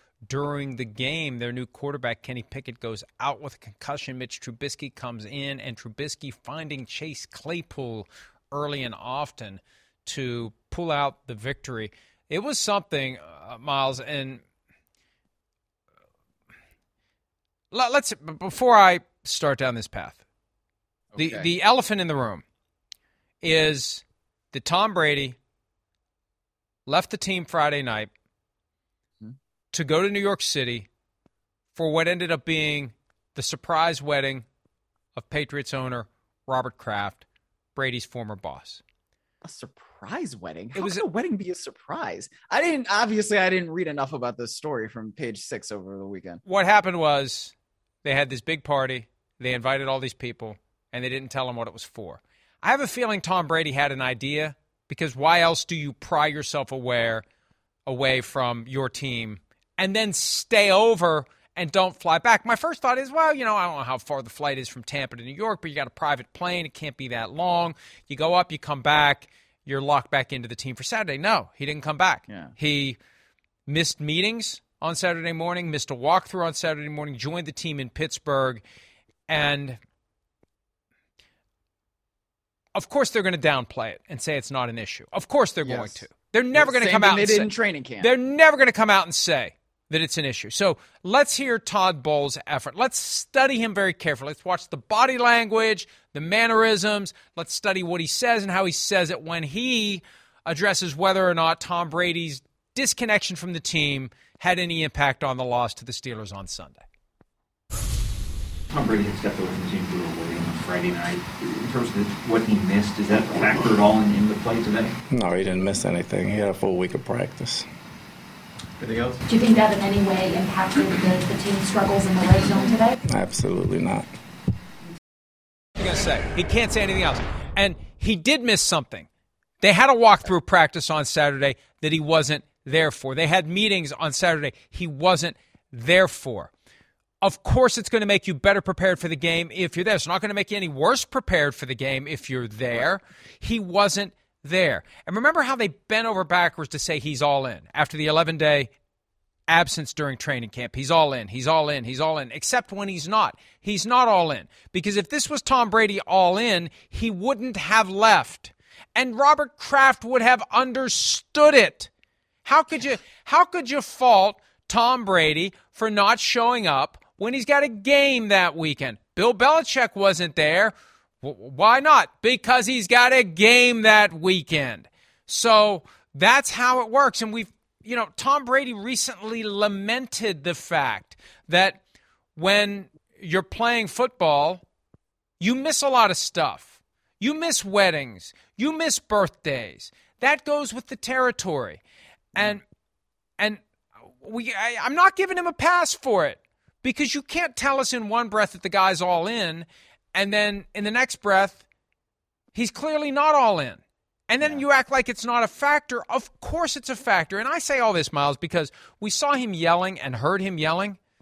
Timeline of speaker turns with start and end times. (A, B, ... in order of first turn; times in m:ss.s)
0:00.3-0:14.4 A
0:17.7-0:20.2 A
0:21.1-0:21.5 B
0:21.2-0:22.4 A
0:23.4-0:25.4 A
0:26.9-0:28.1 A
0:29.7-0:30.9 A
0:31.8-0:34.5 A
0:35.2-0:37.2 A
0:37.8-0:38.8 A
0:39.4-0:46.4 B
0:40.8-0:41.0 A
0:46.5-0:57.2 A
0:57.9-1:13.0 A
1:13.7-1:18.6 A
1:19.3-1:19.8 A
1:22.8-1:46.8 A
1:25.6-1:26.0 B
1:26.6-1:28.1 B
1:48.7-1:55.0 C
1:55.1-1:57.7 D
1:58.8-1:59.2 C
1:59.3-2:03.0 E
2:03.0-2:04.1 D
2:05.8-2:09.1 A
2:09.6-2:16.5 A
2:17.2-2:28.7 A
2:29.5-2:41.9 A
2:42.4-3:01.8 A
3:02.4-3:04.6 A
3:05.4-3:11.8 A
3:12.4-3:12.6 A
3:14.2-3:21.6 A
3:22.5-3:31.0 A